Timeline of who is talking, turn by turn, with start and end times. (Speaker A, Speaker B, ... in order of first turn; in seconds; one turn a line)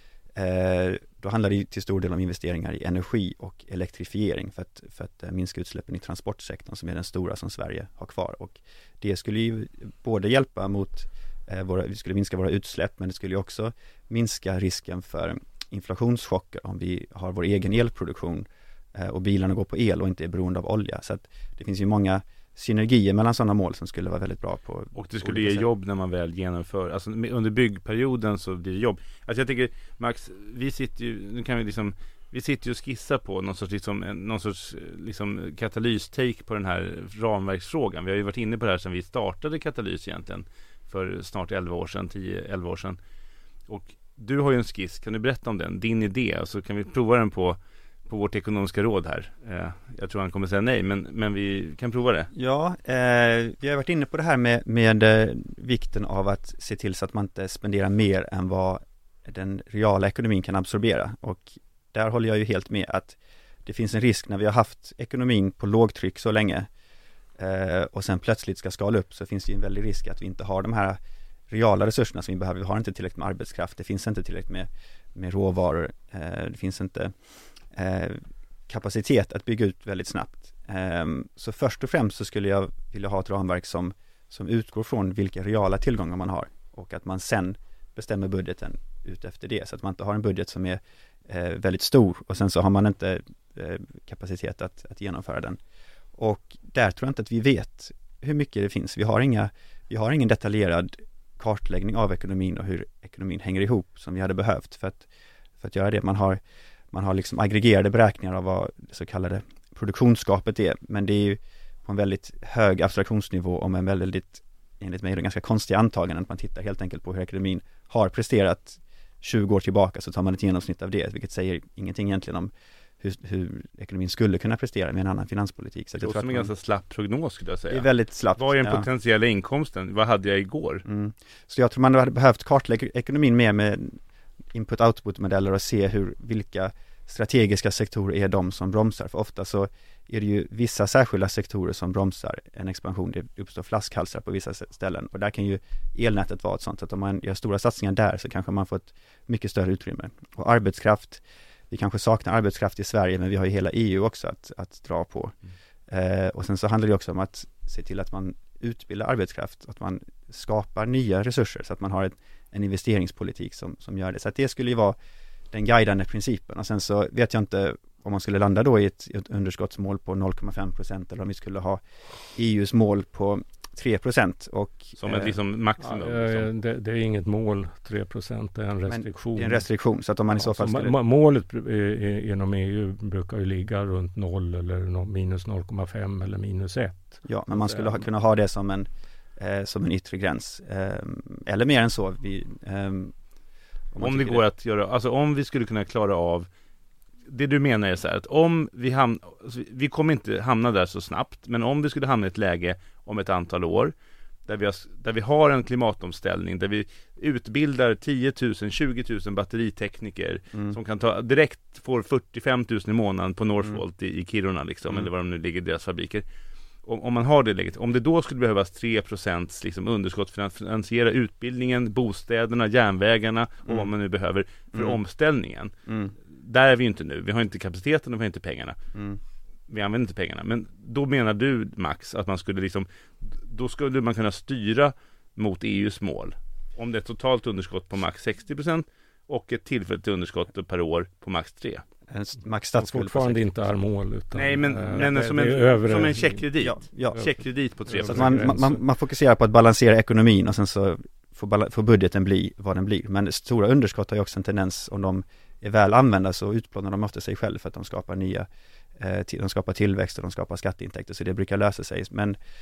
Speaker A: 0.3-25.7
Speaker B: 24.9-43.0
Speaker B: 43.7-52.3
Speaker A: 52.3-66.7
Speaker A: 67.4-71.0
Speaker A: 71.5-77.1
Speaker A: 77.7-95.6
Speaker A: 96.2-105.1
Speaker A: 105.6-106.4
Speaker A: 106.9-126.5
Speaker B: 126.0-130.8
Speaker A: 127.7-128.9
Speaker A: 130.8-134.0
Speaker A: 134.5-155.3
Speaker A: 155.9-164.9
Speaker A: 165.5-171.8
Speaker A: 172.3-175.3
Speaker B: 175.0-176.5
Speaker C: 175.8-179.7
Speaker A: 178.9-180.9
Speaker C: 180.3-187.9
Speaker A: 187.2-193.1
Speaker A: 193.9-194.4
Speaker B: 194.0-196.5
Speaker B: 197.3-203.9
Speaker B: 204.5-216.2
Speaker B: 216.8-225.7
Speaker A: 225.9-226.1
Speaker B: 226.3-228.8
Speaker B: 229.7-241.8
Speaker A: 242.1-243.4
Speaker C: 242.8-246.4
Speaker B: 244.3-248.6
Speaker A: 246.6-247.3
Speaker C: 247.9-248.8
Speaker A: 248.1-262.4